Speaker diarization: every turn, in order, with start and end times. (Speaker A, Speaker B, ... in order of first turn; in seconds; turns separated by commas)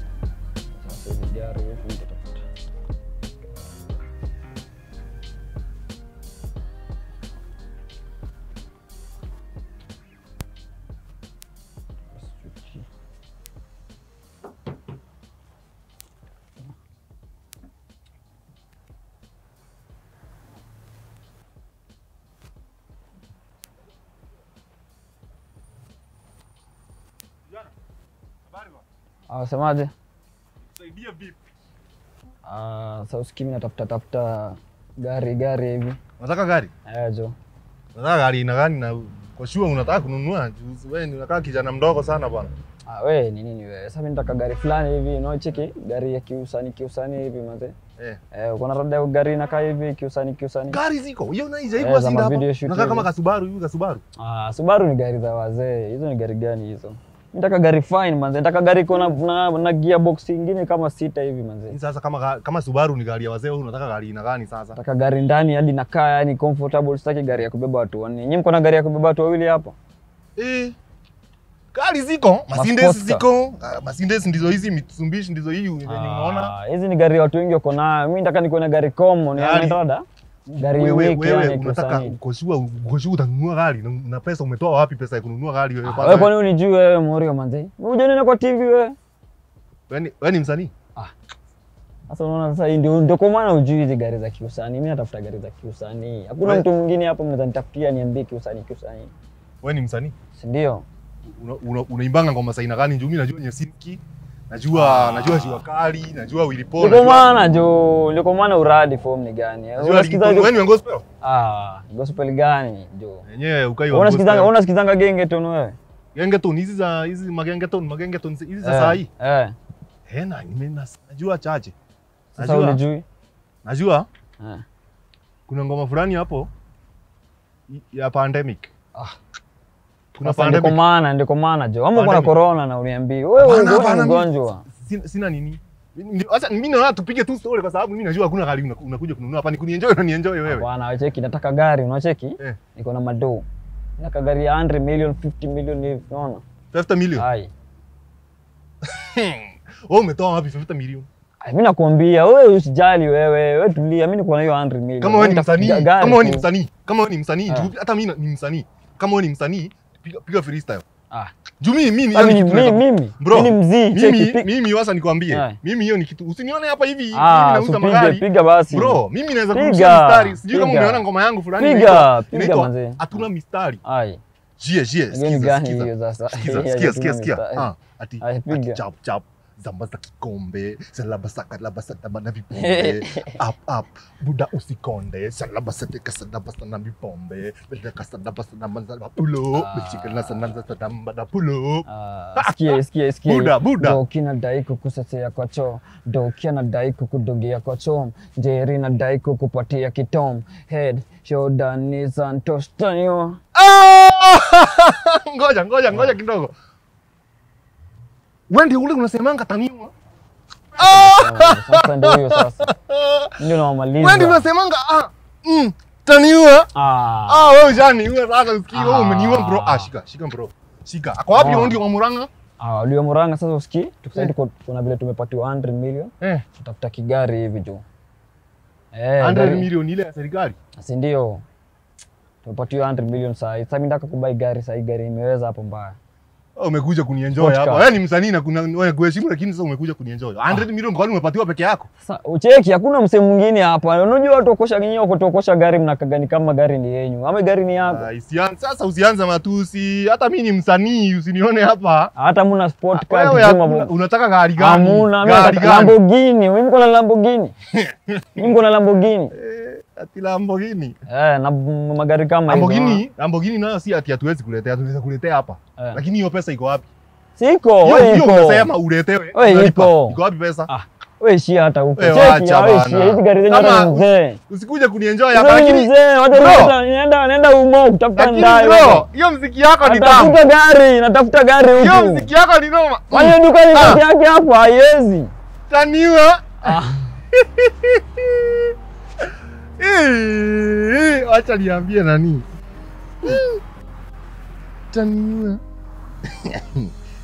Speaker A: 0.8-2.4, Speaker A: 3.4-4.0, Speaker A: 12.1-12.8, Speaker A: 29.3-29.9, Speaker B: 30.7-31.4, Speaker A: 32.4-36.0, Speaker B: 36.2-36.7, Speaker A: 36.9-37.4, Speaker B: 37.9-42.5, Speaker A: 42.9-47.7, Speaker A: 48.3-50.8, Speaker B: 50.7-54.0, Speaker A: 51.8-53.1, Speaker A: 54.2-61.8, Speaker B: 61.7-64.8, Speaker A: 64.8-69.7, Speaker B: 70.4-70.8, Speaker B: 71.7-76.5, Speaker A: 72.5-73.2, Speaker A: 75.8-80.0, Speaker B: 79.3-79.8, Speaker B: 80.5-86.3, Speaker A: 80.6-82.2, Speaker A: 85.8-89.0, Speaker B: 89.9-90.7, Speaker A: 92.1-99.1, Speaker B: 99.6-100.1, Speaker A: 100.4-100.8, Speaker B: 101.3-107.3, Speaker A: 104.7-105.6, Speaker A: 106.8-110.6, Speaker B: 109.8-111.0, Speaker A: 111.2-113.2, Speaker B: 113.2-114.5, Speaker A: 113.9-115.8, Speaker B: 116.1-119.1, Speaker A: 118.6-119.5, Speaker B: 120.1-121.7, Speaker A: 122.3-123.0, Speaker B: 122.4-122.8, Speaker B: 123.6-124.1, Speaker B: 125.5-126.5, Speaker B: 127.7-128.7, Speaker B: 130.1-130.8, Speaker A: 130.2-134.7, Speaker B: 131.9-132.3, Speaker B: 133.4-140.7, Speaker A: 140.4-143.4, Speaker A: 144.0-146.4, Speaker B: 146.7-147.2, Speaker A: 147.2-147.5, Speaker B: 148.8-151.1, Speaker A: 151.4-156.5, Speaker B: 155.0-160.8, Speaker B: 161.6-173.8, Speaker A: 162.1-164.5, Speaker A: 165.3-165.6, Speaker A: 167.1-171.1, Speaker A: 171.6-173.2, Speaker A: 173.8-174.2, Speaker B: 174.6-191.8, Speaker A: 175.1-177.7, Speaker A: 178.2-178.8, Speaker A: 182.5-183.4, Speaker A: 189.5-190.5, Speaker A: 191.9-203.4, Speaker B: 192.3-194.0, Speaker B: 203.5-206.5, Speaker A: 205.9-206.2, Speaker B: 208.5-209.9, Speaker A: 210.8-212.7, Speaker B: 210.8-213.4, Speaker A: 213.4-214.4, Speaker B: 214.0-216.7, Speaker A: 216.7-217.6, Speaker B: 217.2-222.3, Speaker A: 218.7-219.9, Speaker A: 221.4-221.8, Speaker A: 222.6-227.8, Speaker A: 228.9-229.7, Speaker B: 229.2-230.6, Speaker A: 230.8-231.4, Speaker A: 232.4-236.0, Speaker B: 236.6-241.9, Speaker A: 237.3-238.0, Speaker A: 242.0-248.1, Speaker B: 247.9-252.1, Speaker A: 252.2-253.9, Speaker B: 252.9-256.0, Speaker A: 254.6-257.5, Speaker B: 257.7-258.6, Speaker A: 258.4-259.3, Speaker B: 259.3-260.9, Speaker A: 261.1-263.0, Speaker B: 262.5-266.9, Speaker A: 265.8-266.0, Speaker A: 267.4-268.7, Speaker B: 267.8-270.7, Speaker A: 269.3-274.4, Speaker B: 272.0-276.7, Speaker A: 275.3-279.1, Speaker B: 278.2-280.4, Speaker A: 279.8-282.3, Speaker B: 281.8-284.0, Speaker A: 283.1-285.3, Speaker B: 285.7-286.8, Speaker A: 286.6-287.2, Speaker B: 287.3-288.7, Speaker B: 289.8-292.4, Speaker B: 293.2-293.6, Speaker B: 294.9-295.6, Speaker B: 296.2-296.9